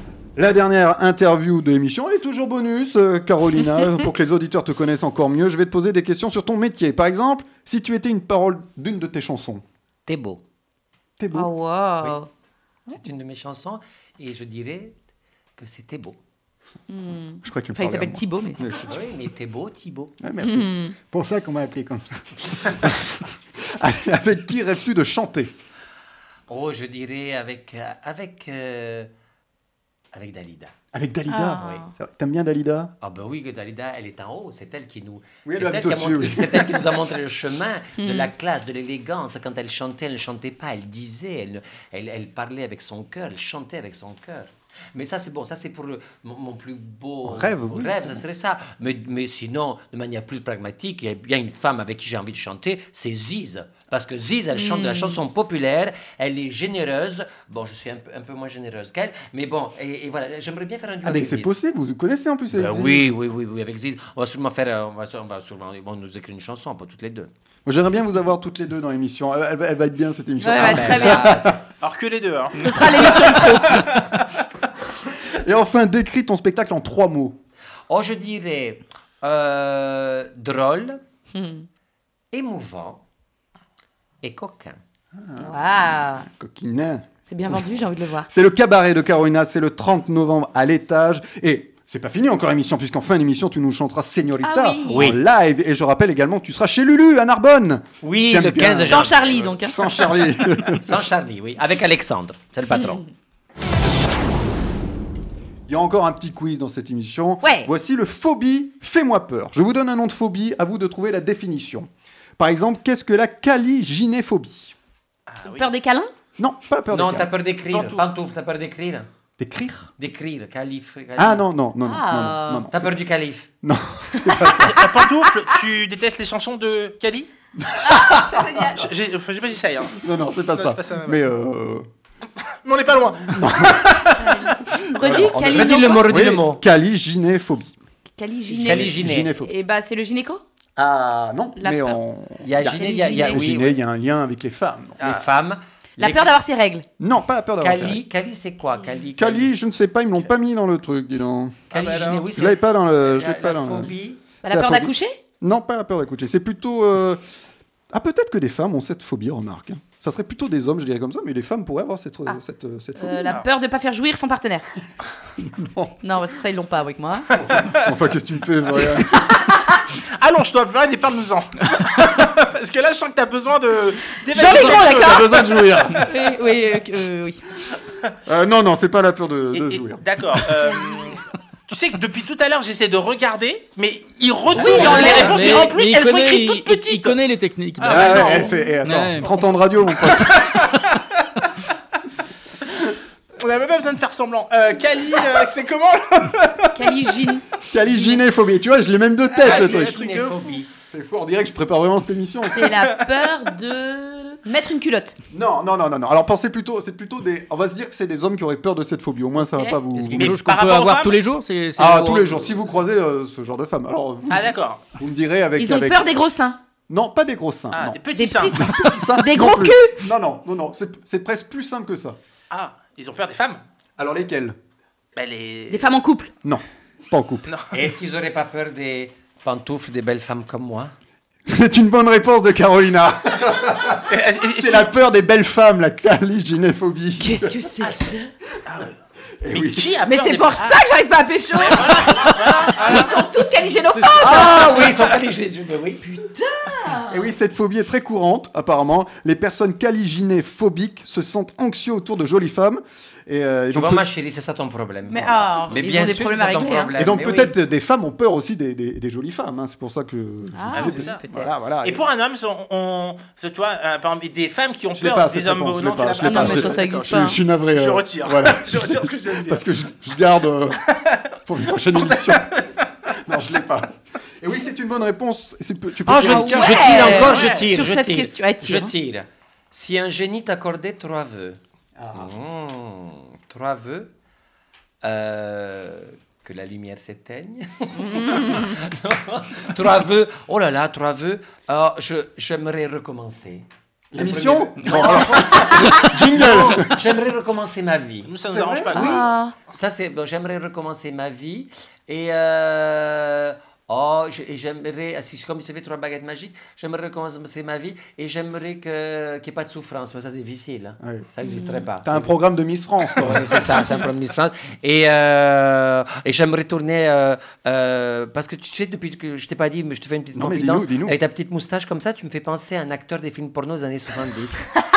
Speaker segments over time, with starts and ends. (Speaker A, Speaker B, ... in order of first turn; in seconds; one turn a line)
Speaker A: 0.4-9.6
Speaker B: 10.1-10.4
Speaker A: 11.2-11.5
Speaker C: 11.3-12.3
Speaker B: 12.9-15.0
Speaker B: 15.6-16.2
Speaker C: 16.9-18.6
Speaker A: 17.4-19.0
Speaker B: 18.8-20.1
Speaker A: 20.2-25.5
Speaker C: 20.4-20.9
Speaker B: 26.5-29.1
Speaker B: 30.1-30.7
Speaker A: 30.9-32.9
Speaker C: 31.3-31.9
Speaker B: 33.0-61.5
Speaker A: 35.5-37.0
Speaker C: 38.0-38.3
Speaker A: 47.2-48.2
Speaker C: 54.5-55.2
Speaker A: 61.0-63.1
Speaker B: 62.5-67.3
Speaker A: 67.7-71.6
Speaker C: 70.4-71.5
Speaker B: 70.6-71.5
Speaker D: 71.8-74.3
Speaker C: 72.6-74.0
Speaker A: 75.3-77.4
Speaker B: 77.9-81.0
Speaker C: 81.3-81.7
Speaker B: 82.3-83.0
Speaker B: 84.2-84.8
Speaker A: 85.1-100.9
Speaker C: 85.4-86.3
Speaker C: 87.3-88.3
Speaker C: 94.4-95.1
Speaker B: 94.9-95.2
Speaker B: 98.0-99.5
Speaker C: 98.8-99.9
Speaker B: 100.7-103.0
Speaker C: 102.7-103.0
Speaker A: 105.7-114.8
Speaker C: 107.4-107.7
Speaker D: 115.3-115.7
Speaker C: 115.5-116.1
Speaker A: 116.4-117.3
Speaker B: 116.9-119.1
Speaker D: 117.7-118.1
Speaker A: 119.4-119.9
Speaker B: 120.0-121.5
Speaker A: 121.2-123.0
Speaker C: 121.8-122.7
Speaker B: 122.7-123.5
Speaker A: 123.6-125.0
Speaker D: 124.6-127.3
Speaker A: 127.6-128.7
Speaker C: 127.8-128.9
Speaker D: 128.8-131.2
Speaker A: 130.0-131.9
Speaker D: 132.6-134.6
Speaker A: 133.3-134.1
Speaker C: 134.2-136.1
Speaker A: 134.8-137.8
Speaker B: 135.4-136.6
Speaker C: 138.2-140.4
Speaker B: 138.5-139.3
Speaker A: 138.6-139.5
Speaker A: 140.8-145.0
Speaker C: 141.6-142.0
Speaker B: 142.4-143.8
Speaker C: 142.6-143.4
Speaker B: 145.0-146.3
Speaker C: 146.0-146.9
Speaker A: 147.0-148.0
Speaker B: 147.6-149.5
Speaker A: 149.2-151.6
Speaker D: 151.7-152.3
Speaker B: 151.7-154.2
Speaker A: 152.3-157.2
Speaker C: 154.4-155.2
Speaker A: 157.9-163.4
Speaker C: 163.0-164.7
Speaker A: 165.4-166.0
Speaker C: 166.0-167.3
Speaker A: 167.4-169.3
Speaker D: 167.5-167.9
Speaker D: 170.2-176.1
Speaker C: 174.3-175.6
Speaker A: 174.4-176.1
Speaker C: 176.1-177.4
Speaker A: 178.3-180.5
Speaker D: 179.5-187.2
Speaker C: 184.6-185.7
Speaker A: 184.6-185.3
Speaker E: 184.7-189.3
Speaker D: 187.8-188.5
Speaker A: 187.8-190.7
Speaker D: 190.0-191.5
Speaker D: 193.4-197.2
Speaker C: 196.8-198.2
Speaker A: 197.7-200.0
Speaker B: 199.3-200.7
Speaker D: 199.4-200.6
Speaker A: 200.9-202.7
Speaker C: 202.5-205.2
Speaker A: 205.3-210.4
Speaker C: 209.5-209.8
Speaker E: 210.0-212.5
Speaker D: 210.1-211.2
Speaker A: 211.8-216.2
Speaker D: 214.3-214.8
Speaker C: 215.6-216.6
Speaker A: 216.9-218.0
Speaker D: 217.7-218.6
Speaker C: 218.2-220.0
Speaker A: 218.5-222.2
Speaker D: 222.5-223.6
Speaker A: 224.0-224.6
Speaker D: 225.2-225.9
Speaker C: 225.7-226.3
Speaker A: 226.4-227.5
Speaker D: 227.5-227.7
Speaker B: 227.7-230.9
Speaker A: 231.5-237.7
Speaker D: 234.1-234.9
Speaker C: 237.2-238.3
Speaker D: 238.7-238.9
Speaker A: 239.4-239.9
Speaker D: 239.5-240.8
Speaker C: 240.1-244.9
Speaker D: 241.6-243.4
Speaker B: 244.2-246.0
Speaker C: 246.0-247.2
Speaker A: 247.1-254.1
Speaker B: 253.7-257.6
Speaker C: 255.1-256.9
Speaker A: 256.9-262.0
Speaker C: 260.5-261.5
Speaker D: 260.7-261.2
Speaker D: 261.8-269.7
Speaker A: 265.0-270.8
Speaker C: 266.2-267.4
Speaker D: 270.9-271.3
Speaker A: 271.5-272.5
Speaker D: 271.9-272.9
Speaker A: 273.2-277.3
Speaker B: 276.1-281.6
Speaker C: 276.2-278.9
Speaker D: 277.1-277.7
Speaker A: 282.0-282.3
Speaker B: 282.1-284.1
Speaker B: 285.0-298.3
Speaker C: 287.9-288.8
Speaker A: 294.1-297.0
Speaker D: 298.2-299.1
Speaker A: 298.5-299.0
Speaker C: 298.9-299.6
Speaker B: 298.9-312.3
Speaker A: 311.0-311.3
Speaker C: 311.4-311.9
Speaker A: 312.0-313.9
Speaker B: 313.2-324.7
Speaker A: 320.4-321.2